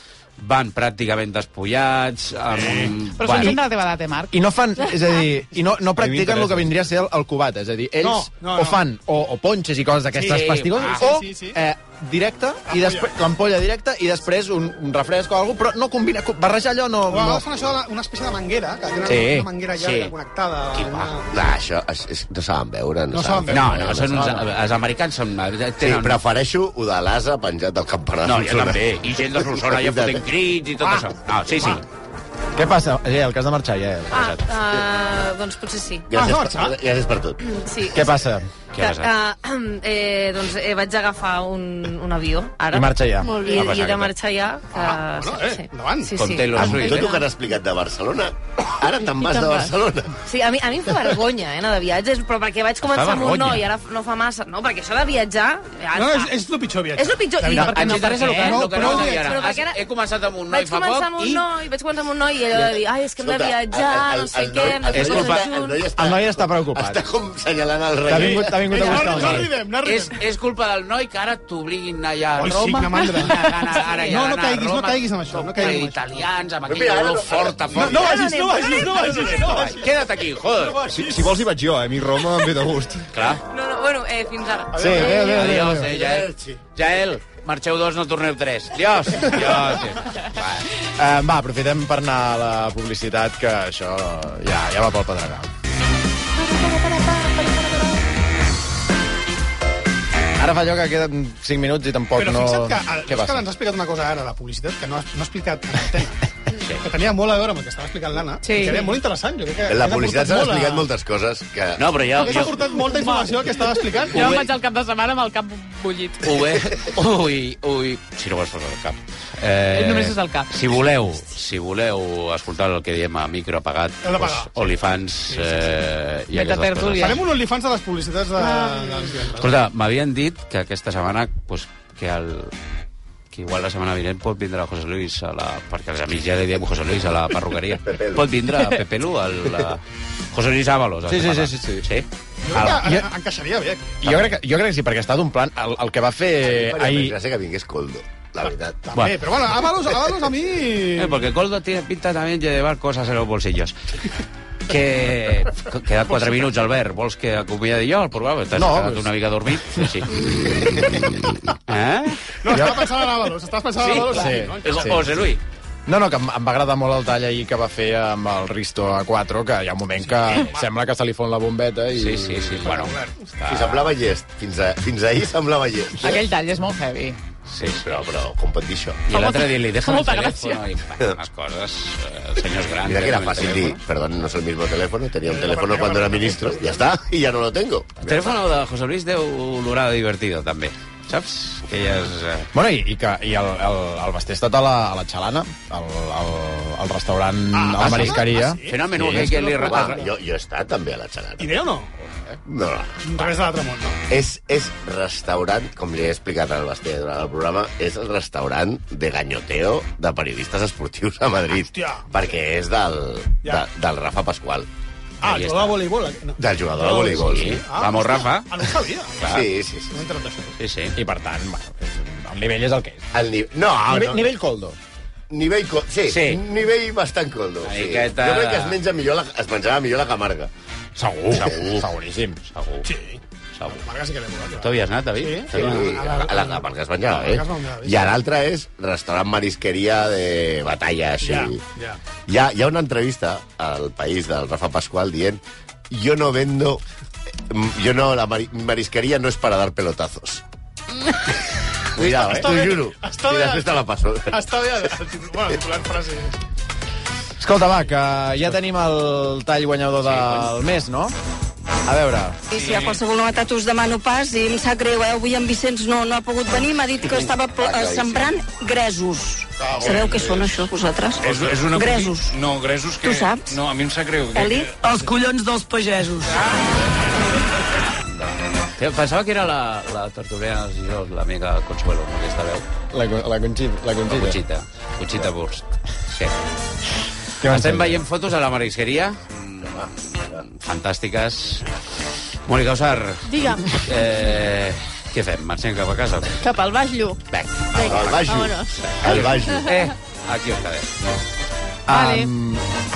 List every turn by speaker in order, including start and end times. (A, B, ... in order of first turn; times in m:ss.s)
0:00.4-0:03.6 A
0:02.5-0:03.0 B
0:03.2-0:04.3 C
0:04.3-0:17.4 D
0:05.9-0:06.7 E
0:08.0-0:08.8 B
0:10.1-0:11.1 A
0:10.3-0:11.6 B
0:12.7-0:13.2 B
0:17.1-0:21.5 B
0:19.0-0:19.5 D
0:19.8-0:20.1 A
0:20.7-0:21.2 A
0:21.3-0:24.5 F
0:23.1-0:23.8 B
0:23.5-0:26.2 A
0:25.8-0:30.2 F
0:28.2-0:31.8 A
0:32.6-0:34.1 D
0:34.1-0:34.4 A
0:34.1-0:36.1 G
0:36.1-0:37.4 F
0:36.1-0:36.8 B
0:37.5-0:38.2 G
0:37.9-0:38.5 D
0:38.7-0:39.1 A
0:38.8-0:47.2 G
0:42.7-0:43.4 D
0:43.2-0:43.7 H
0:43.5-0:44.1 A
0:44.7-0:46.2 B
0:46.2-0:47.2 A
0:46.6-0:50.2 F
0:49.1-0:49.7 H
0:50.2-0:56.4 G
0:52.8-0:53.6 A
0:55.9-0:59.4 B
0:56.9-0:58.1 G
0:57.5-1:01.4 A
0:57.9-0:58.6 C
0:58.7-0:59.8 G
1:00.5-1:05.9 G
1:02.5-1:09.4 F
1:04.9-1:05.4 A
1:06.0-1:07.0 D
1:08.1-1:09.5 D
1:08.1-1:10.2 B
1:09.8-1:18.2 A
1:12.4-1:16.2 B
1:16.6-1:18.1 F
1:17.8-1:20.0 B
1:18.1-1:19.1 G
1:19.3-1:20.8 A
1:20.6-1:21.3 B
1:20.9-1:23.0 E
1:23.1-1:23.4 A
1:23.4-1:25.4 G
1:24.8-1:25.9 D
1:24.8-1:25.0 B
1:25.0-1:30.7 A
1:25.6-1:26.6 F
1:31.0-1:35.5 D
1:40.4-1:43.5 D
1:42.2-1:46.2 B
1:46.8-1:50.9 B
1:48.4-1:49.0 C
1:49.7-1:52.5 F
1:51.8-1:52.7 A
1:52.2-1:54.4 B
1:52.8-1:53.5 C
1:54.0-1:56.4 C
1:54.1-1:54.4 A
1:56.2-2:07.2 A
1:59.7-2:00.5 C
2:04.0-2:04.7 B
2:05.3-2:05.8 B
2:06.3-2:07.3 C
2:07.0-2:09.5 B
2:08.5-2:09.1 G
2:09.4-2:12.5 A
2:13.3-2:22.9 A
2:17.8-2:18.3 F
2:21.1-2:21.9 D
2:22.5-2:24.0 B
2:22.6-2:23.1 D
2:24.0-2:27.2 D
2:24.0-2:24.4 A
2:26.4-2:28.8 F
2:28.9-2:31.2 B
2:28.9-2:29.2 A
2:31.0-2:33.7 A
2:34.7-2:42.2 A
2:38.5-2:39.1 D
2:42.4-2:45.3 B
2:42.5-2:42.8 D
2:43.8-2:45.4 A
2:43.9-2:45.1 D
2:45.9-2:52.5 D
2:50.0-2:50.7 B
2:50.3-2:50.6 A
2:51.9-2:53.8 A
2:52.5-2:53.2 B
2:53.4-2:56.2 F
2:56.0-2:57.2 C
2:57.4-2:58.0 A
2:57.8-2:59.0 F
2:59.1-3:03.8 A
2:59.1-3:00.6 C
3:02.8-3:08.4 F
3:05.2-3:06.8 B
3:08.0-3:12.5 A
3:12.5-3:19.3 D
3:17.5-3:20.0 B
3:17.8-3:20.0 A
3:19.0-3:21.6 F
3:21.4-3:21.9 B
3:22.0-3:22.4 A
3:22.4-3:23.5 F
3:23.0-3:24.0 B
3:24.1-3:34.7 F
3:31.7-3:32.0 B
3:35.2-3:39.2 B
3:35.2-3:35.8 A
3:36.4-3:37.6 F
3:37.2-3:38.6 A
3:39.2-3:39.4 A
3:39.2-3:39.9 F
3:39.9-3:40.6 B
3:40.6-3:40.9 A
3:41.0-3:43.0 D
3:43.1-3:44.3 F
3:43.9-3:44.8 D
3:45.3-3:50.5 F
3:46.1-3:46.4 A
3:47.6-3:48.8 A
3:51.0-3:51.9 A
3:51.0-3:52.4 D
3:52.5-3:52.9 A
3:52.8-3:53.2 B
3:53.6-3:53.8 A
3:53.8-3:58.2 B
3:54.6-3:55.9 A
3:55.5-4:01.6 F
4:01.2-4:02.0 B
4:02.3-4:06.8 F
4:07.5-4:10.4 F
4:11.9-4:14.4 F
4:12.2-4:16.4 B
4:17.4-4:21.1 D
4:20.0-4:20.5 A
4:21.8-4:22.4 D
4:22.5-4:32.3 I
4:22.5-4:23.0 J
4:27.0-4:28.3 F
4:29.8-4:30.5 F
4:31.2-4:35.1 J
4:31.3-4:32.1 A
4:33.0-4:33.6 I
4:34.3-4:36.4 I
4:38.1-4:42.6 A
4:42.9-4:44.4 D
4:44.1-4:46.3 A
4:47.4-4:48.0 D
4:47.4-4:51.6 A
4:52.5-4:56.4 A
4:53.2-4:53.8 H
4:56.4-4:57.2 H
4:57.3-4:59.7 F
4:57.7-4:58.9 H
4:57.9-4:58.2 A
4:58.9-5:00.9 A
5:01.9-5:02.6 D
5:01.9-5:02.2 H